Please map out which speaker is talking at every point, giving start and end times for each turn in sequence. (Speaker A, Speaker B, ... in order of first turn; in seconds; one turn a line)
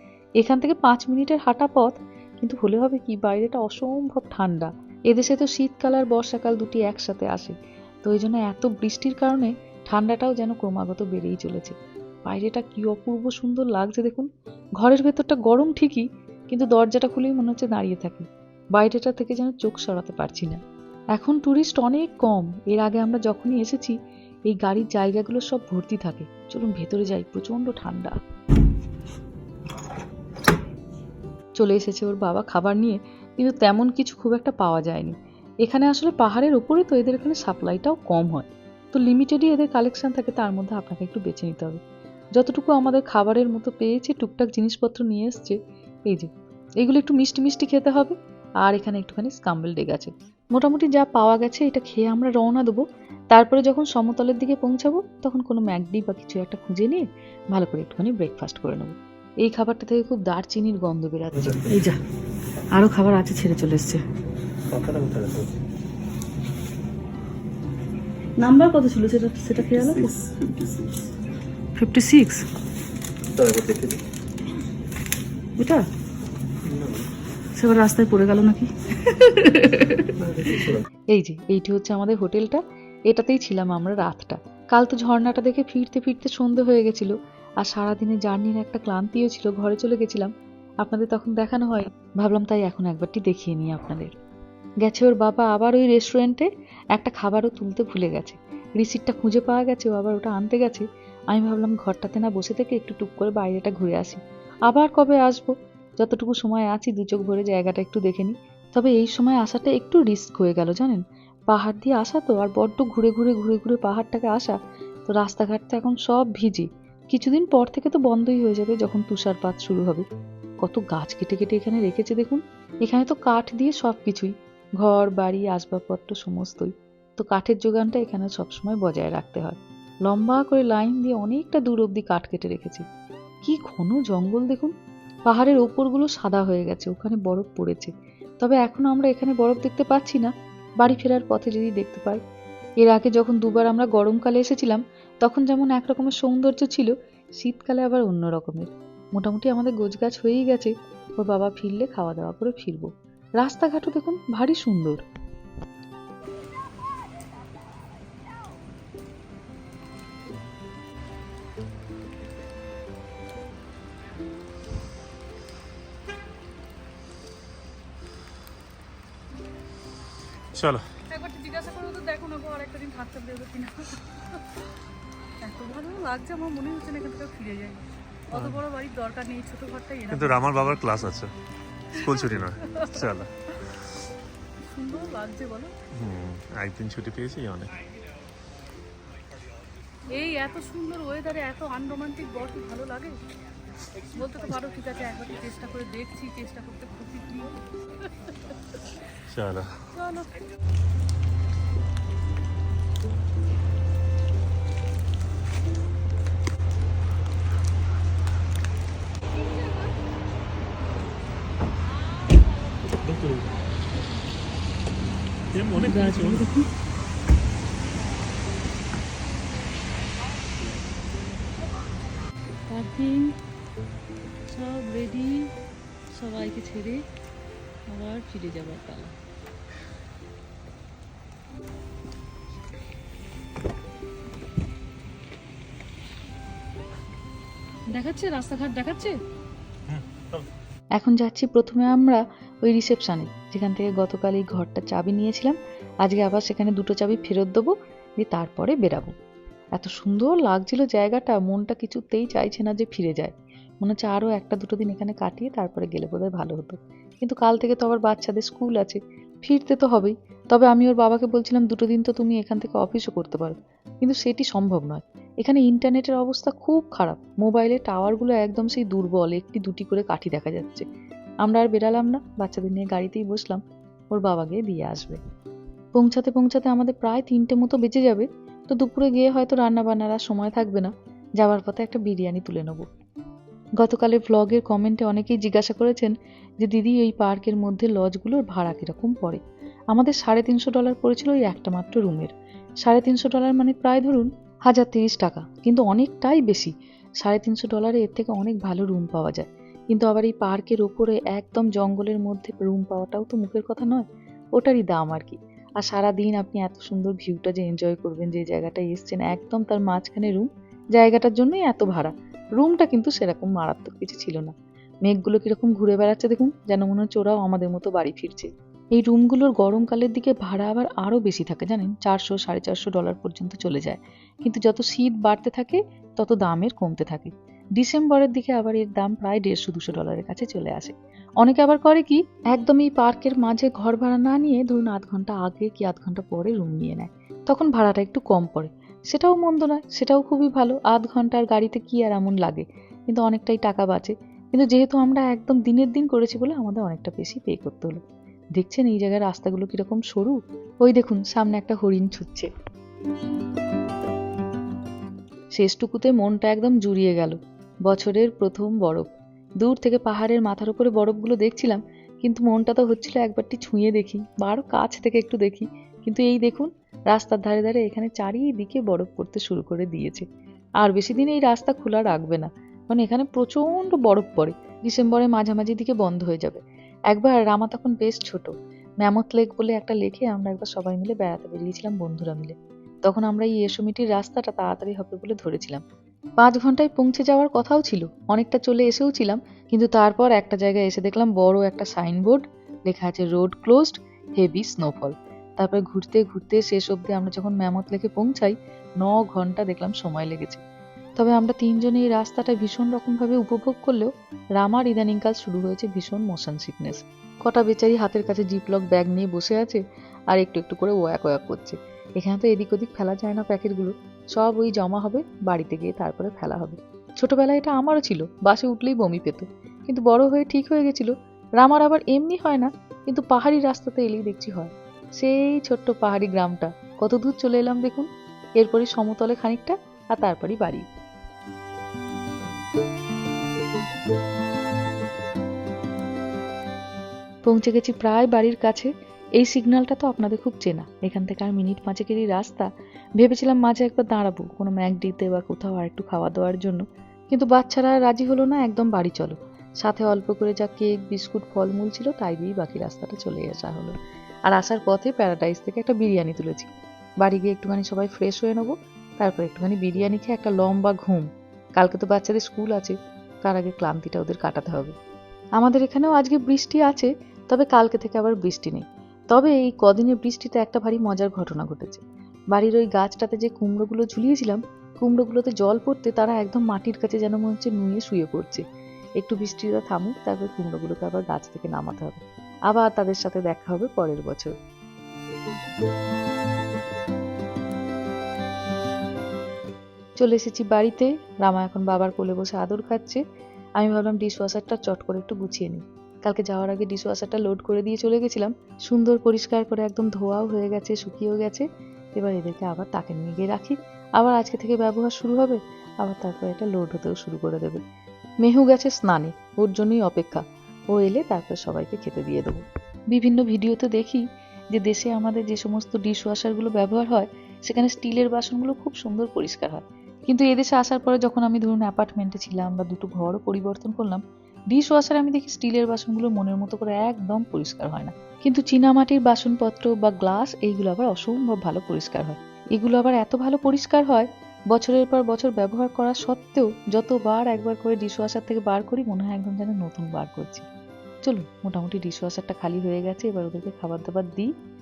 Speaker A: 0.4-11.8
Speaker A: 12.3-14.3
Speaker A: 14.8-20.6
Speaker A: 21.1-24.0
Speaker A: 24.5-28.2
Speaker A: 31.6-41.8
Speaker A: 42.4-45.6
Speaker A: 46.8-61.6
Speaker B: 61.3-61.9
Speaker C: 61.7-62.0
Speaker C: 62.7-64.0
Speaker B: 64.7-65.6
Speaker C: 68.4-70.2
Speaker B: 69.8-71.0
Speaker C: 71.8-72.5
Speaker B: 73.3-74.0
Speaker C: 75.6-75.9
Speaker B: 76.6-77.1
Speaker C: 77.6-80.6
Speaker B: 80.2-80.8
Speaker A: 81.1-94.1
Speaker A: 94.8-120.0
Speaker A: 120.6-132.8
Speaker A: 133.4-134.7
Speaker A: 135.3-142.2
Speaker A: 142.8-155.0
Speaker B: 170.5-170.8
Speaker C: 171.1-174.1
Speaker C: 175.4-180.5
Speaker B: 178.3-178.6
Speaker B: 180.1-181.3
Speaker B: 181.9-183.3
Speaker C: 182.0-182.9
Speaker C: 184.7-185.7
Speaker B: 185.9-187.7
Speaker C: 190.1-193.2
Speaker C: 194.1-197.6
Speaker B: 199.3-199.9
Speaker C: 200.0-200.2
Speaker B: 212.9-213.5
Speaker B: 215.5-216.5
Speaker C: 215.7-216.7
Speaker C: 222.7-223.4
Speaker C: 224.5-225.5
Speaker C: 226.1-227.1
Speaker C: 227.9-229.2
Speaker C: 237.9-239.2
Speaker B: 239.9-240.5
Speaker A: 241.0-249.1
Speaker A: 249.8-270.9
Speaker A: 271.4-273.6
Speaker A: 274.1-275.2
Speaker A: 275.9-282.9
Speaker A: 283.8-289.4
Speaker A: 289.9-292.3
Speaker A: 292.8-304.0
Speaker A: 304.6-314.5
Speaker A: 315.1-348.0
Speaker A: 348.6-352.5
Speaker A: 355.5-359.1
Speaker A: 359.6-370.3
Speaker A: 370.8-385.8
Speaker A: 386.4-400.6
Speaker A: 401.2-430.9
Speaker A: 437.4-453.9
Speaker A: 454.5-464.9
Speaker A: 465.6-478.6
Speaker A: 479.2-484.5
Speaker A: 490.2-493.2
Speaker A: 493.8-507.8
Speaker A: 508.4-540.7
Speaker A: 541.2-544.5